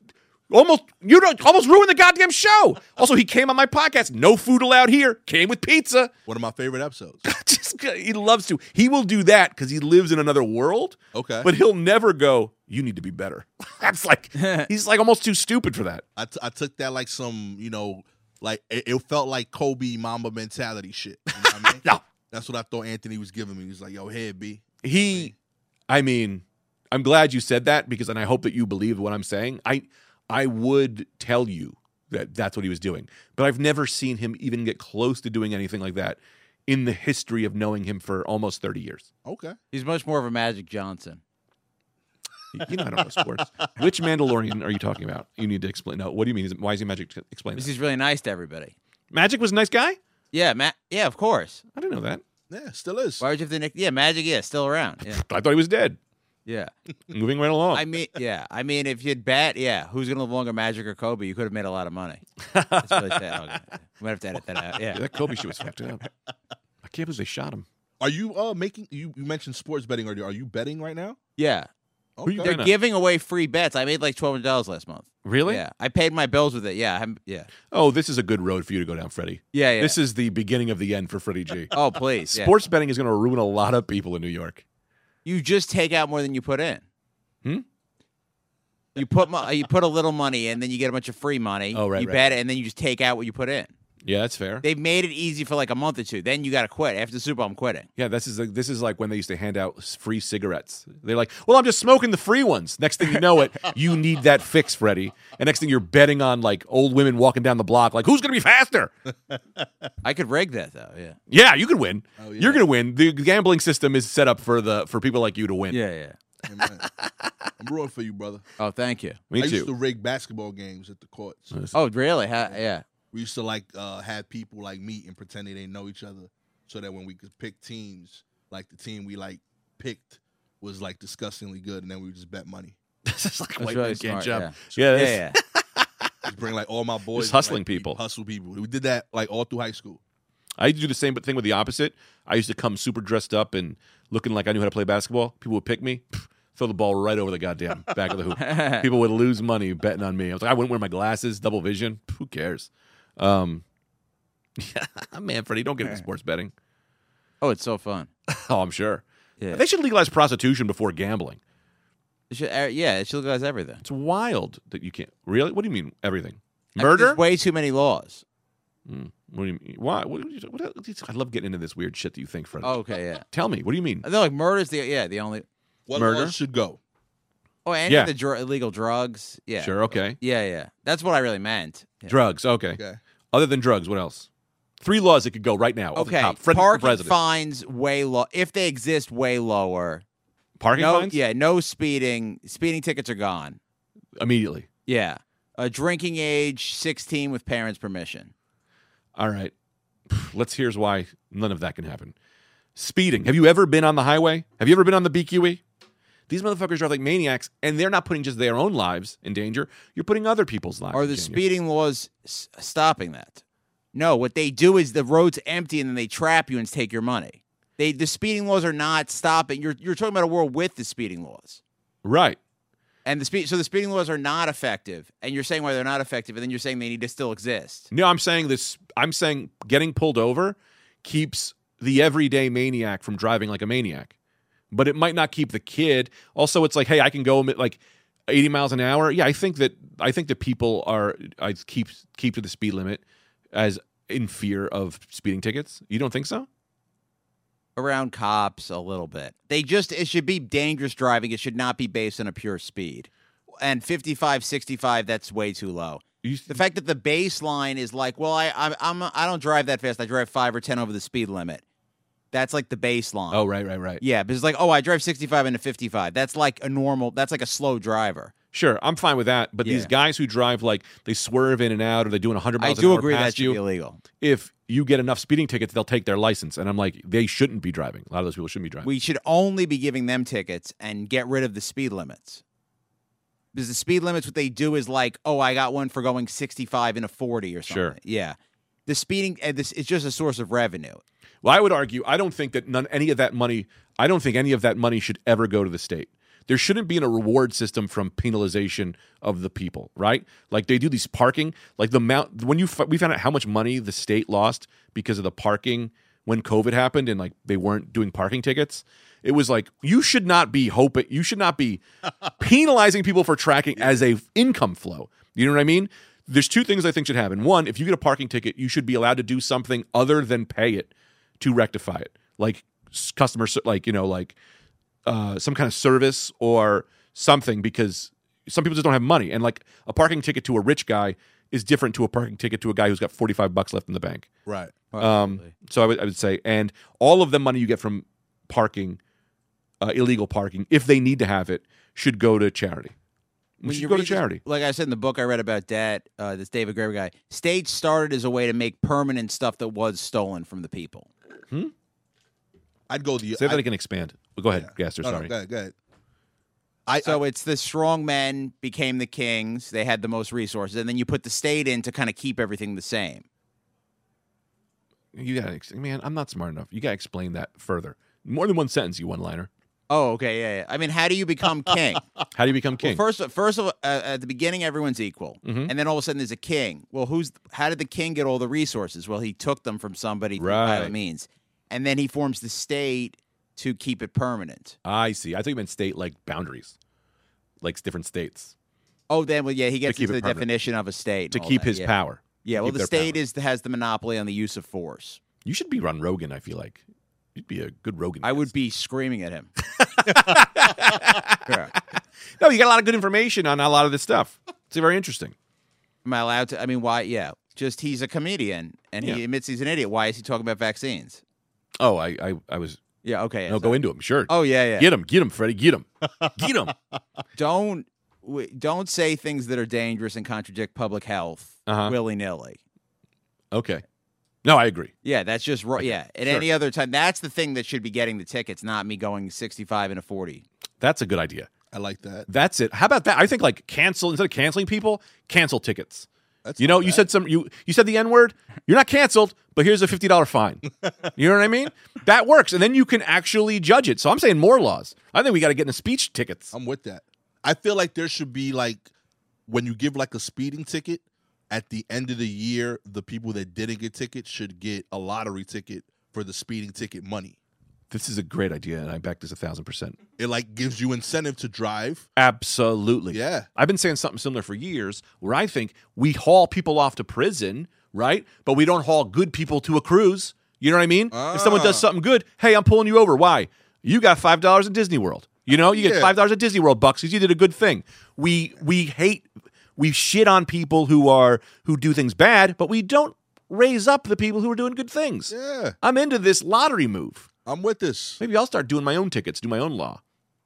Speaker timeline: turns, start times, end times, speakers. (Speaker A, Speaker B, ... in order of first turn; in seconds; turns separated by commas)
Speaker A: 0.5-6.1, Speaker B: 6.3-7.2, Speaker A: 7.2-16.0, Speaker B: 11.1-11.5, Speaker C: 14.4-14.7, Speaker B: 16.2-25.3, Speaker A: 21.4-22.0, Speaker A: 24.8-25.3, Speaker A: 25.9-39.1, Speaker B: 39.2-39.6, Speaker C: 39.7-41.2, Speaker A: 42.5-47.7, Speaker C: 47.5-48.8, Speaker A: 49.1-50.0, Speaker C: 50.3-51.6, Speaker A: 51.7-52.2, Speaker B: 52.5-53.2, Speaker C: 53.2-55.2, Speaker A: 55.0-56.0, Speaker C: 56.5-56.7, Speaker A: 57.1-57.9, Speaker C: 57.7-62.2, Speaker A: 62.5-63.2, Speaker C: 62.8-65.0, Speaker A: 64.9-66.1, Speaker A: 66.8-67.7, Speaker B: 68.0-71.2, Speaker C: 71.4-71.7, Speaker B: 72.2-72.5, Speaker A: 72.2-72.7, Speaker C: 72.4-77.5, Speaker A: 75.2-75.6, Speaker A: 77.7-84.6, Speaker C: 79.5-80.0, Speaker C: 81.7-82.5, Speaker C: 85.2-86.8, Speaker C: 89.0-93.7, Speaker A: 91.7-92.3, Speaker A: 94.0-94.6, Speaker C: 94.6-97.9, Speaker A: 98.0-108.9, Speaker B: 109.3-109.6, Speaker C: 110.0-111.2, Speaker A: 111.3-115.8, Speaker B: 112.2-112.6, Speaker C: 115.7-116.2, Speaker B: 116.5-116.8, Speaker A: 116.8-117.3, Speaker B: 117.6-118.4, Speaker C: 118.6-119.2, Speaker A: 119.3-119.7, Speaker B: 119.4-121.5, Speaker C: 121.7-122.8, Speaker B: 123.1-132.8, Speaker A: 133.1-136.1, Speaker C: 133.6-135.4, Speaker B: 136.2-140.0, Speaker A: 137.2-138.0, Speaker A: 140.6-153.6, Speaker C: 148.4-148.9, Speaker A: 154.6-156.5, Speaker C: 157.4-158.1, Speaker A: 158.3-161.4, Speaker C: 162.3-163.8, Speaker A: 163.8-167.2, Speaker C: 166.8-168.2, Speaker A: 168.9-172.8, Speaker C: 172.6-173.2, Speaker A: 173.3-174.1, Speaker C: 174.0-175.5, Speaker B: 175.9-176.8, Speaker A: 175.9-176.4, Speaker C: 177.7-182.1, Speaker A: 179.6-180.2, Speaker A: 182.1-182.8, Speaker A: 183.3-184.3, Speaker A: 184.8-187.2, Speaker C: 186.0-190.0, Speaker A: 190.6-191.2, Speaker C: 190.8-193.6, Speaker A: 194.2-194.7, Speaker C: 194.9-198.3, Speaker A: 199.2-199.5, Speaker A: 200.1-202.1, Speaker A: 202.8-205.6, Speaker A: 206.3-211.4, Speaker C: 210.9-213.4, Speaker C: 213.9-221.6, Speaker A: 222.0-222.4, Speaker C: 223.1-227.9, Speaker A: 227.9-234.1, Speaker A: 234.7-243.0, Speaker A: 243.5-246.5, Speaker C: 247.8-253.1, Speaker C: 253.6-261.6, Speaker A: 256.2-256.6, Speaker C: 262.3-263.4, Speaker A: 263.3-264.0, Speaker C: 264.0-268.3, Speaker A: 268.5-273.6, Speaker C: 269.6-269.9, Speaker C: 272.6-274.0, Speaker A: 274.2-278.9, Speaker C: 278.8-282.4, Speaker C: 283.5-291.0, Speaker A: 287.7-287.9, Speaker A: 291.4-311.8, Speaker A: 312.4-324.4, Speaker A: 325.1-334.3, Speaker B: 334.5-334.8, Speaker C: 334.9-335.5, Speaker A: 335.0-339.0, Speaker A: 339.8-342.9, Speaker A: 343.6-344.4, Speaker C: 343.6-351.1, Speaker B: 352.9-353.6, Speaker A: 353.4-355.3, Speaker B: 354.5-355.8, Speaker B: 356.9-357.2, Speaker C: 357.0-363.2, Speaker A: 365.1-369.5, Speaker C: 369.9-372.1, Speaker A: 372.3-373.0, Speaker C: 372.8-384.8, Speaker A: 375.4-375.7, Speaker A: 380.4-380.9, Speaker A: 384.9-386.8, Speaker A: 387.6-388.5, Speaker C: 389.1-391.9, Speaker A: 389.9-390.5, Speaker A: 391.3-393.2, Speaker C: 392.4-395.2, Speaker A: 395.4-396.8, Speaker A: 397.4-398.5, Speaker C: 398.2-399.5, Speaker A: 399.8-401.8, Speaker C: 401.5-401.7, Speaker A: 402.4-405.3, Speaker C: 406.1-411.2, Speaker A: 411.8-412.8, Speaker C: 413.0-414.9, Speaker A: 413.5-416.7, Speaker C: 417.4-422.6, Speaker A: 421.7-422.0, Speaker A: 423.5-423.8, Speaker A: 424.4-424.9, Speaker C: 425.0-430.4, Speaker A: 430.8-431.5, Speaker B: 431.7-432.3, Speaker A: 432.3-436.1, Speaker B: 436.4-437.1, Speaker A: 436.6-446.5, Speaker B: 446.5-448.9, Speaker B: 449.5-457.4, Speaker A: 457.9-460.0, Speaker B: 460.2-462.1, Speaker A: 462.2-487.3, Speaker B: 463.1-463.5, Speaker B: 471.1-471.9, Speaker B: 475.7-476.1, Speaker B: 485.3-485.8, Speaker B: 487.5-488.2, Speaker A: 488.2-490.0